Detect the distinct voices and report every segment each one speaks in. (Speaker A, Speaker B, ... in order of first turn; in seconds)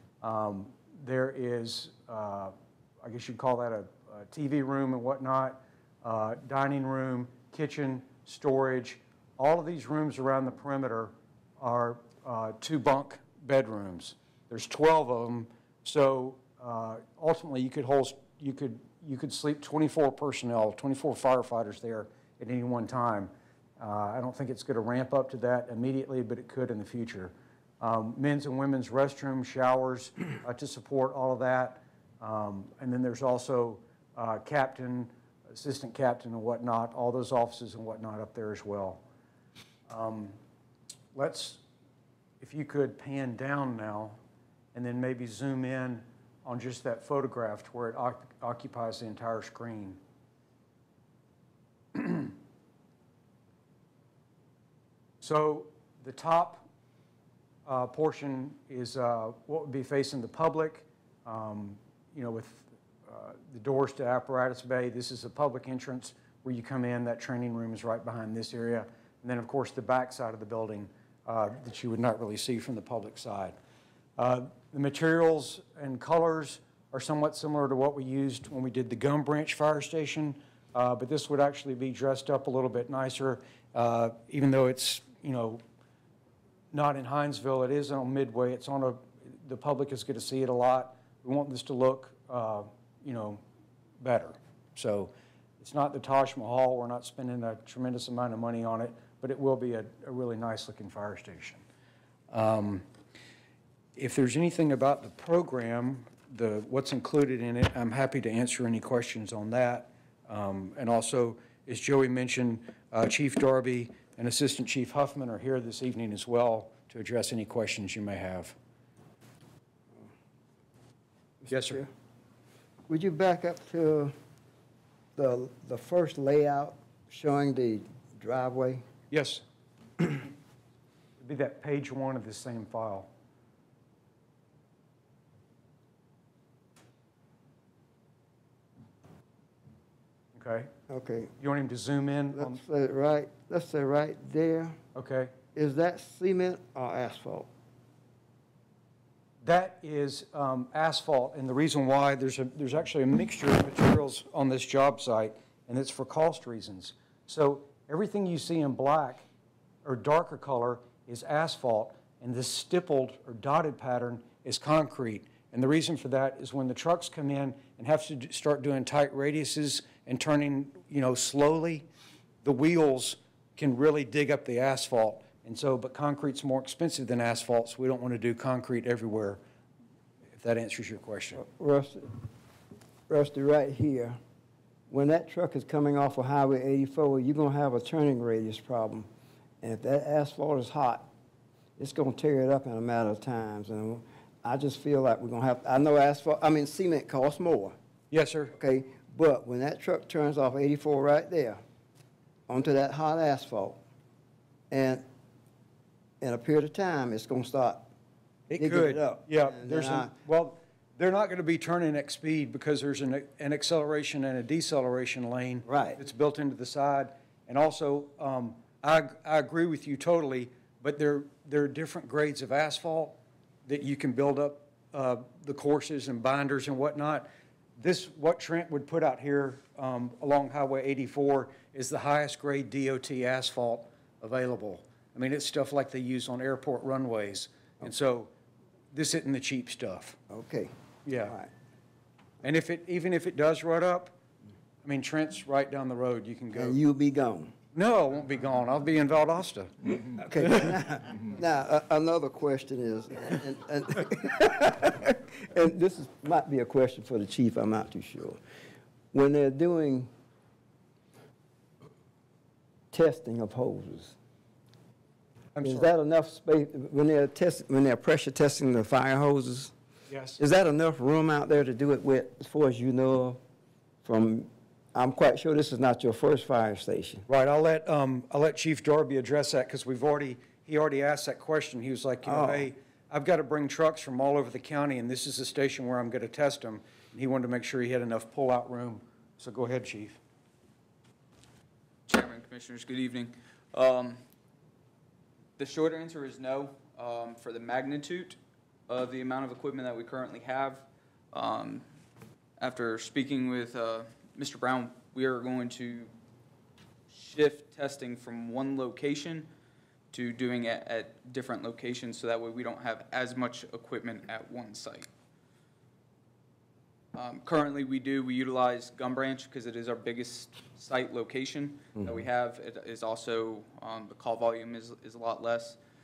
Speaker A: 0.2-39.0, 39.9-40.4, 41.1-41.6, 42.4-44.2, 44.7-50.0, 51.9-52.3, 55.2-56.7, 57.6-73.6, 74.2-85.6, 86.7-93.4, 94.0-101.6, 102.3-102.9, 104.0-118.5, 121.5-121.8, 129.1-129.4, 131.2-133.1, 140.3-140.7, 141.4-142.6, 144.9-145.3, 149.4-159.2, 159.8-171.9, 172.4-179.4, 180.4-181.4, 198.1-198.5, 208.5-238.3, 238.9-240.2, 241.0-241.4, 242.4-244.2, 244.8-246.8, 247.7-249.9, 265.5-265.9, 270.1-270.4, 277.3-290.2
Speaker B: 121.4-121.9, 122.9-124.1, 125.2-128.8, 140.9-141.3, 142.3-144.8, 145.5-147.5, 181.3-182.1, 183.1-184.2, 184.9-189.1, 189.6-191.1, 191.8-197.8, 198.5-201.6, 202.5-203.8, 204.7-205.0, 206.2-207.9, 208.5-210.1, 215.7-216.0, 240.3-241.5, 246.5-247.5, 250.1-258.4, 259.1-260.1, 262.9-264.1, 265.6-269.7, 270.4-273.4, 274.0-277.2, 282.2-282.7
Speaker C: 292.1-294.2, 295.6-301.9, 302.6-306.1, 307.1-309.5, 310.1-315.1, 317.1-325.8